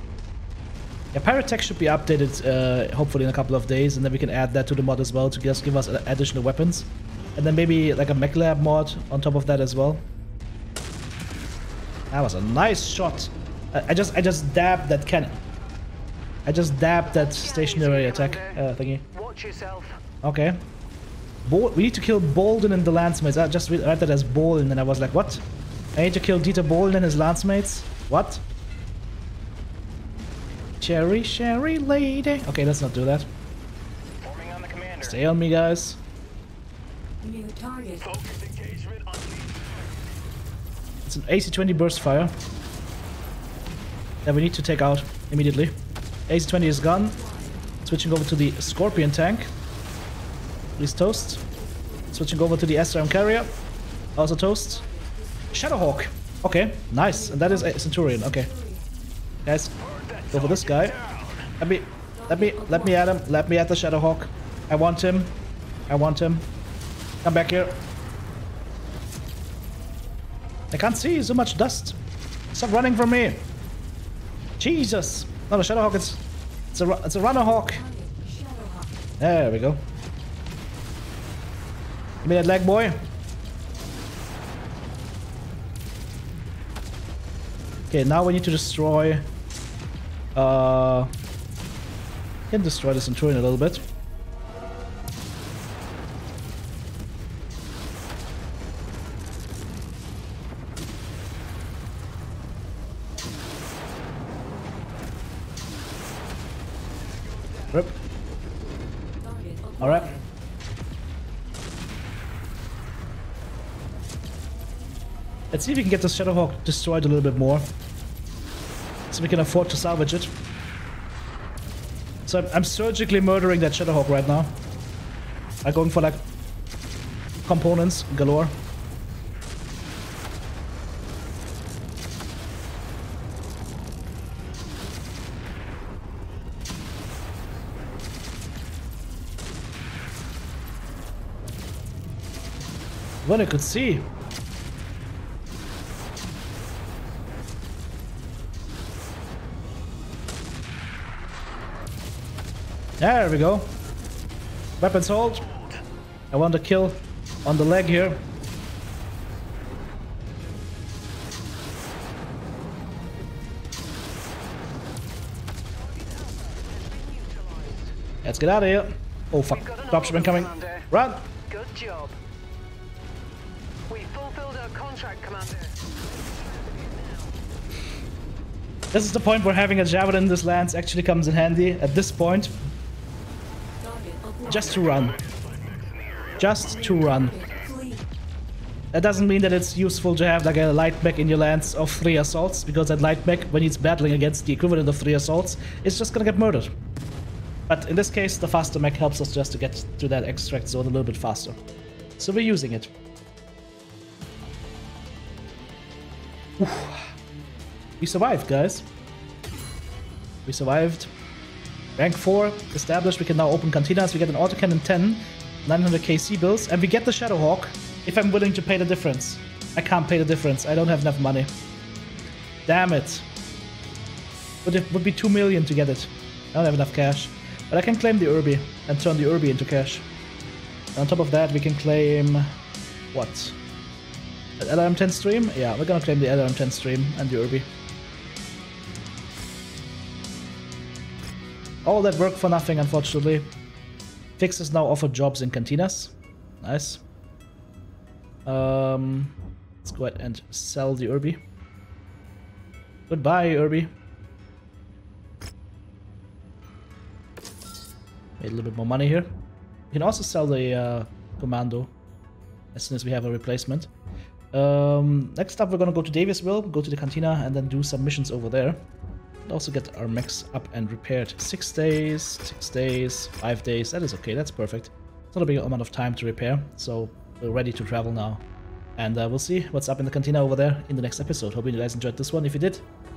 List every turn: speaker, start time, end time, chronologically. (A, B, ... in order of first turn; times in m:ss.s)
0:01.1-0:10.0 A
0:12.1-0:15.4 A
0:16.4-0:19.1 A
0:17.1-0:18.6 B
0:19.1-0:20.0 B
0:20.2-0:20.6 A
0:21.4-0:25.4 A
0:25.9-0:28.4 A
0:30.8-0:33.3 A
0:34.2-0:35.0 C
0:35.0-0:36.0 A
0:37.9-0:39.9 C
0:41.0-0:42.3 A
0:44.2-0:45.8 A
0:46.3-0:47.2 A
0:47.8-0:49.5 A
0:50.8-0:51.4 A
0:52.1-0:53.5 A
0:54.2-0:54.9 A
0:55.5-0:58.5 A
0:59.4-0:59.7 A
1:00.0-1:00.3 C
1:00.3-1:01.1 A
1:01.6-1:05.4 A
1:05.9-1:06.5 A
1:07.2-1:07.8 A
1:10.7-1:12.0 A
1:12.5-1:13.5 A
1:14.6-1:16.2 A
1:16.7-1:17.9 A
1:19.2-1:19.9 A
1:22.2-1:23.1 A
1:27.9-1:29.3 A
1:30.3-1:31.1 A
1:32.5-1:33.8 A
1:47.7-1:48.0 A
1:49.8-1:50.2 A
1:55.5-1:57.7 A
1:59.1-2:00.3 A
2:02.2-2:04.6 A
2:05.6-2:06.3 A
2:07.4-2:08.6 A
2:23.2-2:24.1 A
2:33.0-2:33.8 A
2:34.8-2:35.5 A
2:36.3-2:38.3 A
2:45.6-2:47.9 B
2:48.2-2:51.3 A
2:49.5-2:50.9 B
2:51.5-2:52.2 B
2:53.9-2:57.4 B
2:58.9-3:02.6 A
3:04.4-3:05.2 A
3:06.4-3:07.4 A
3:08.9-3:16.7 A
3:17.7-3:21.6 A
3:22.2-3:22.9 A
3:26.6-3:27.1 A
3:28.0-3:28.9 A
3:30.4-3:31.1 A
3:32.0-3:41.5 A
3:42.7-3:43.2 A
3:44.6-3:50.0 A
3:51.0-3:52.5 A
3:53.1-3:53.6 A
3:54.6-3:57.7 A
4:01.8-4:03.5 A
4:04.4-4:07.0 A
4:08.4-4:11.4 A
4:13.1-4:13.9 A
4:18.4-4:19.3 A
4:19.9-4:21.9 A
4:22.7-4:23.9 A
4:24.5-4:28.8 A
4:29.4-4:38.4 A
4:39.0-4:42.8 A